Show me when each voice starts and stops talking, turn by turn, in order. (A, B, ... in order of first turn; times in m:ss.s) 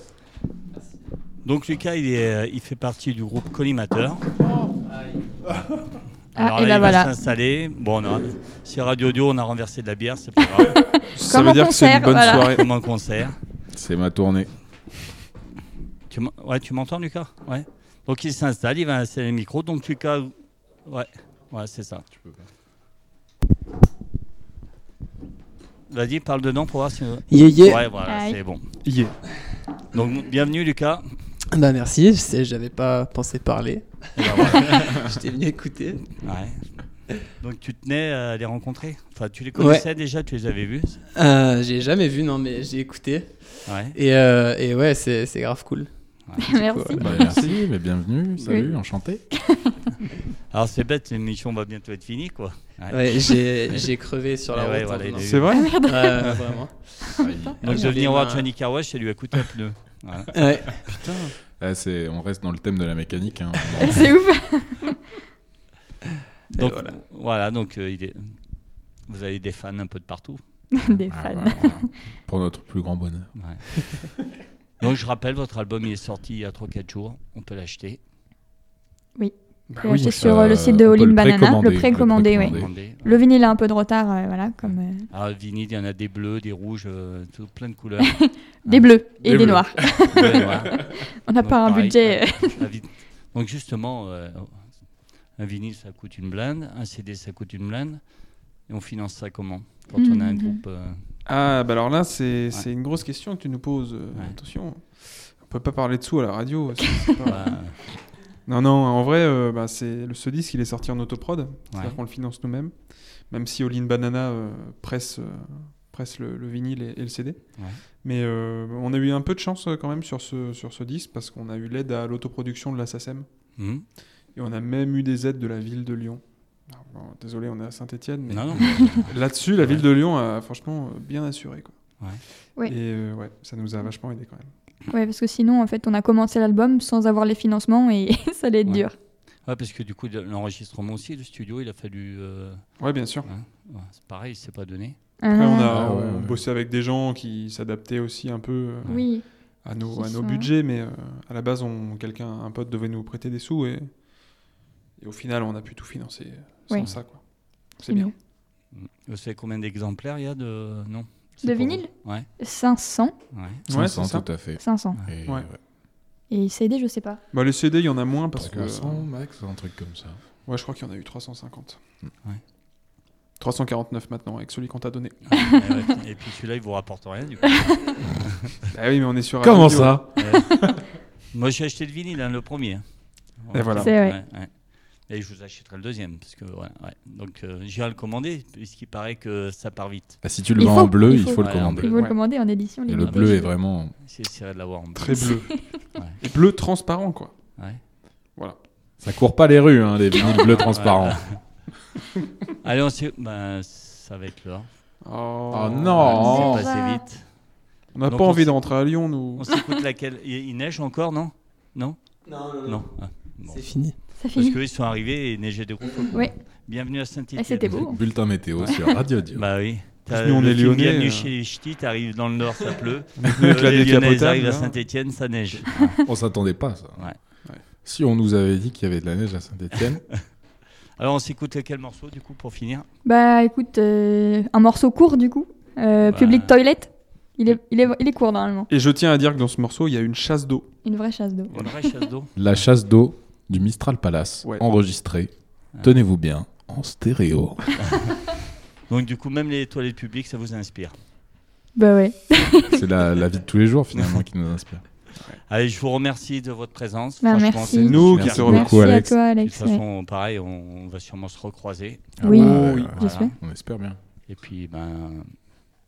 0:01.4-0:04.2 A
0:06.3-0:10.9 A
0:06.4-0:07.1 B
0:10.7-0:12.6 B
0:11.1-0:12.7 C
0:12.1-0:13.4 A
0:13.7-0:14.5 D
0:16.1-0:20.3 A
0:20.8-0:22.1 A
0:22.1-0:22.4 D
0:25.9-0:28.7 A
0:27.3-0:27.9 E
0:28.0-0:28.4 B
0:28.8-0:29.2 C
0:29.9-0:31.0 A
0:31.5-0:36.1 E
0:34.2-0:35.0 A
0:36.2-0:36.8 A
0:37.4-0:41.0 A
0:39.6-0:39.8 E
0:41.1-0:47.4 E
0:43.6-0:44.0 A
0:46.4-0:47.4 B
0:47.0-0:49.2 D
0:47.0-0:47.6 C
0:48.5-0:49.8 B
0:50.5-0:53.9 A
0:52.9-0:56.9 E
0:54.5-0:55.6 A
0:55.2-0:56.6 C
0:55.5-0:56.3 B
0:57.2-0:57.6 D
0:57.6-0:58.5 E
0:57.6-1:00.6 A
1:00.3-1:00.8 E
1:00.8-1:01.3 C
1:01.6-1:04.2 D
1:03.8-1:05.0 B
1:06.5-1:07.0 E
1:06.5-1:08.4 A
1:09.0-1:10.4 A
1:10.7-1:11.9 B
1:11.1-1:13.3 D
1:13.3-1:13.6 A
1:14.8-1:18.0 A
1:19.2-1:25.1 B
1:19.7-1:20.6 C
1:19.8-1:22.7 D
1:22.4-1:23.2 A
1:24.6-1:28.9 A
1:28.0-1:32.6 B
1:29.2-1:30.5 D
1:29.9-1:30.8 A
1:31.4-1:38.1 A
1:38.6-1:41.0 A
1:39.9-1:40.6 B
1:41.2-1:47.8 C
1:47.2-1:47.8 A
1:48.4-2:03.3 C
1:51.7-1:52.0 A
2:03.6-2:03.8 A
2:04.3-2:11.8 C
2:08.3-2:09.8 A
2:12.6-2:14.5 C
2:14.9-2:19.0 B
2:19.4-2:25.0 A
2:22.8-2:23.3 C
2:25.2-2:25.7 B
2:25.3-2:29.0 C
2:25.7-2:26.4 D
2:28.9-2:29.2 B
2:29.6-2:33.9 C
2:29.9-2:30.5 B
2:35.0-2:37.2 C
2:36.7-2:37.0 B
2:37.8-2:38.1 B
2:37.8-2:38.1 C
2:38.7-2:42.3 A
2:41.4-2:43.2 B
2:43.3-2:43.6 A
2:43.7-2:44.3 C
2:43.7-2:45.6 D
2:44.6-2:45.0 B
2:46.3-2:47.2 B
2:47.3-2:49.1 C
2:48.4-2:50.2 D
2:50.4-2:51.8 C
2:53.4-2:55.2 C
2:55.2-2:58.5 A
2:58.7-3:00.1 C
2:59.4-3:00.8 D
3:00.2-3:00.6 A
3:01.3-3:10.2 A
3:03.5-3:04.0 C
3:03.8-3:04.2 B
3:10.2-3:11.9 D
3:10.6-3:13.5 B
3:11.4-3:12.0 A
3:12.9-3:13.9 D
3:13.0-3:15.3 A
3:14.9-3:15.6 C
3:15.1-3:15.6 B
3:16.2-3:17.3 C
3:19.0-3:21.4 D
3:20.2-3:21.4 A
3:22.6-3:24.7 A
3:25.0-3:26.2 C
3:25.5-3:26.7 D
3:26.0-3:27.3 A
3:26.1-3:27.0 B
3:27.9-3:29.5 C
3:28.0-3:37.9 A
3:32.2-3:34.0 E
3:34.2-3:34.6 B
3:37.4-3:38.0 B
3:37.7-3:39.4 D
3:38.6-3:46.1 A
3:40.1-3:41.3 C
3:43.2-3:44.8 C
3:46.0-3:47.1 D
3:47.8-3:50.0 D
3:49.7-3:50.2 A
3:51.0-3:52.8 A
3:53.0-3:58.7 B
3:56.0-3:56.6 A
3:58.7-4:00.7 C
4:00.8-4:01.9 B
4:01.5-4:02.3 A
4:02.3-4:08.0 D
4:07.8-4:08.3 A
4:08.9-4:11.0 A
4:11.7-4:12.8 B
4:12.6-4:14.8 D
4:13.9-4:14.2 A
4:15.5-4:22.2 A
4:17.2-4:19.8 B
4:17.8-4:18.7 C
4:18.1-4:19.2 D
4:22.2-4:24.0 D
4:22.2-4:23.3 B
4:22.2-4:22.9 C
4:22.8-4:23.3 A
4:24.3-4:25.5 A